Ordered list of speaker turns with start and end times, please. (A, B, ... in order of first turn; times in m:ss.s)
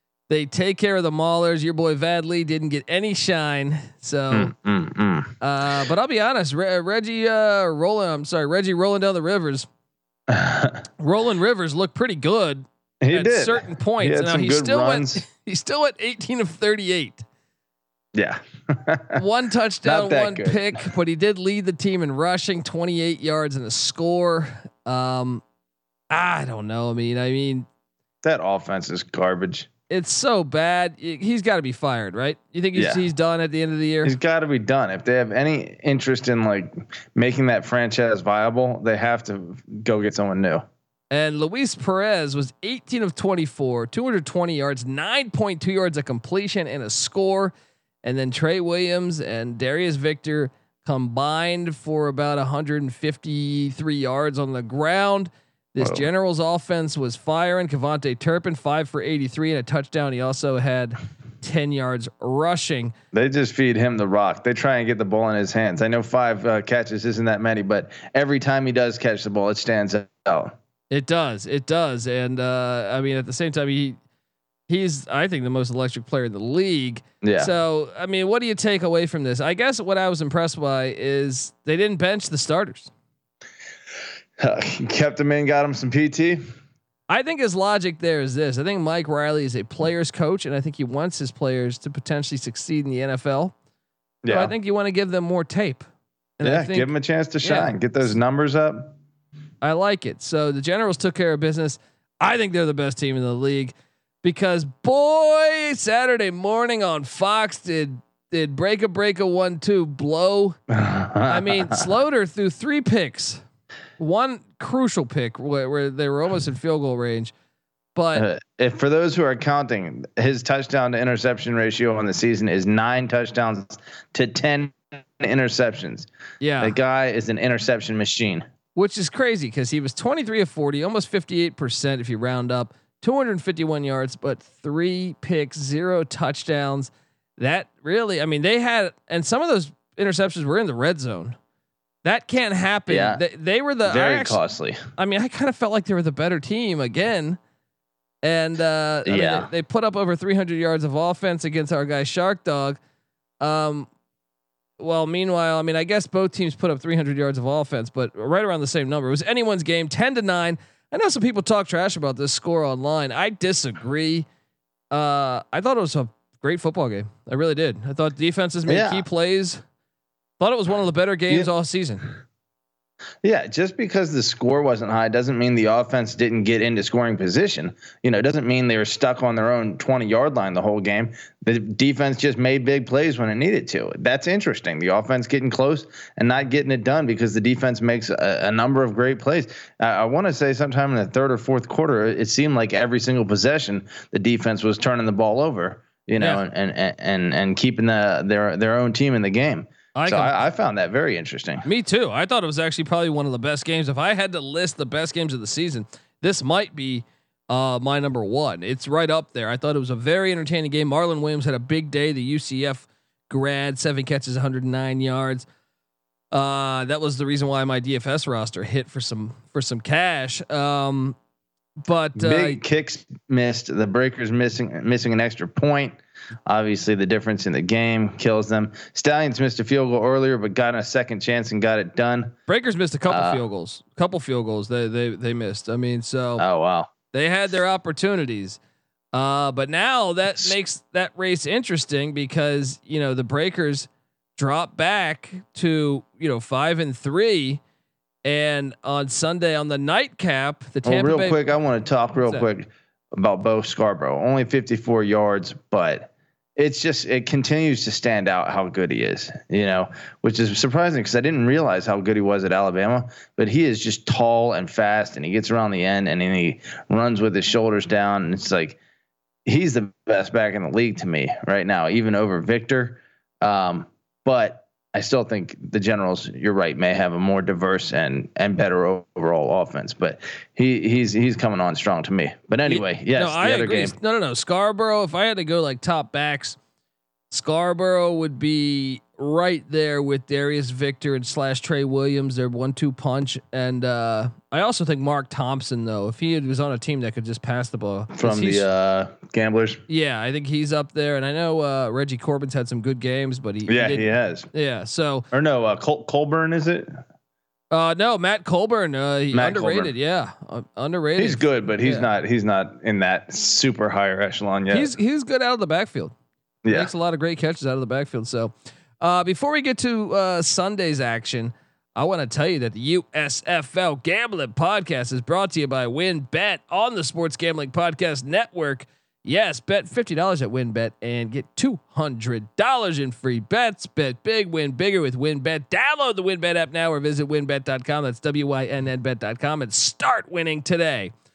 0:00.3-0:04.5 A
0:04.3-0:05.3 B
0:05.4-0:09.7 A
0:10.3-0:10.8 B
0:11.0-0:17.2 A
0:13.0-0:15.2 B
0:18.1-0:19.2 B
0:19.1-0:25.4 A
0:19.8-0:20.8 B
0:26.1-0:27.7 A
0:28.2-0:29.7 B
0:29.9-0:34.1 A
0:32.7-0:33.0 B
0:34.0-0:40.6 B
0:41.1-1:02.9 A
0:55.8-0:56.0 B
1:03.1-1:10.5 B
1:10.9-1:14.0 A
1:14.7-1:22.9 A
1:17.2-1:17.5 B
1:24.4-1:26.4 B
1:27.1-1:33.5 A
1:34.2-1:34.5 B
1:34.3-1:35.8 A
1:36.4-1:37.8 A
1:36.4-1:38.9 B
1:39.6-1:50.6 A
1:50.7-1:51.8 B
1:51.2-1:53.4 A
1:54.0-1:57.3 A
1:57.9-1:58.2 A
1:58.1-2:06.1 B
2:06.4-2:06.8 A
2:06.6-2:08.4 B
2:08.7-2:21.4 A
2:22.0-2:24.4 A
2:22.9-2:23.2 B
2:23.8-2:24.8 B
2:25.0-2:27.4 A
2:28.2-2:32.8 A
2:29.0-2:29.5 B
2:33.4-2:33.9 A
2:34.8-2:44.3 A
2:44.9-2:49.6 A
2:48.7-2:49.0 B
2:50.4-2:52.1 A
2:53.2-3:21.6 B
3:19.9-3:20.4 A
3:21.6-3:35.5 A
3:36.3-3:41.2 A
3:41.8-3:42.6 A
3:42.2-3:52.3 B
3:52.5-3:56.4 A
3:53.1-3:53.4 B
3:56.4-3:56.9 B
3:57.1-3:58.6 A
3:59.1-4:07.6 A
4:08.2-4:11.5 A
4:10.8-4:28.8 B
4:12.2-4:12.4 A
4:29.4-4:43.9 B
4:42.6-4:46.6 A
4:47.3-4:58.6 A
4:58.1-4:59.8 B
4:59.9-5:05.2 A
5:03.7-5:04.5 B
5:05.3-5:07.0 B
5:07.7-5:12.1 A
5:09.3-5:09.9 B
5:11.2-5:14.9 B
5:14.7-5:16.1 A
5:16.6-5:16.9 B
5:16.7-5:41.1 A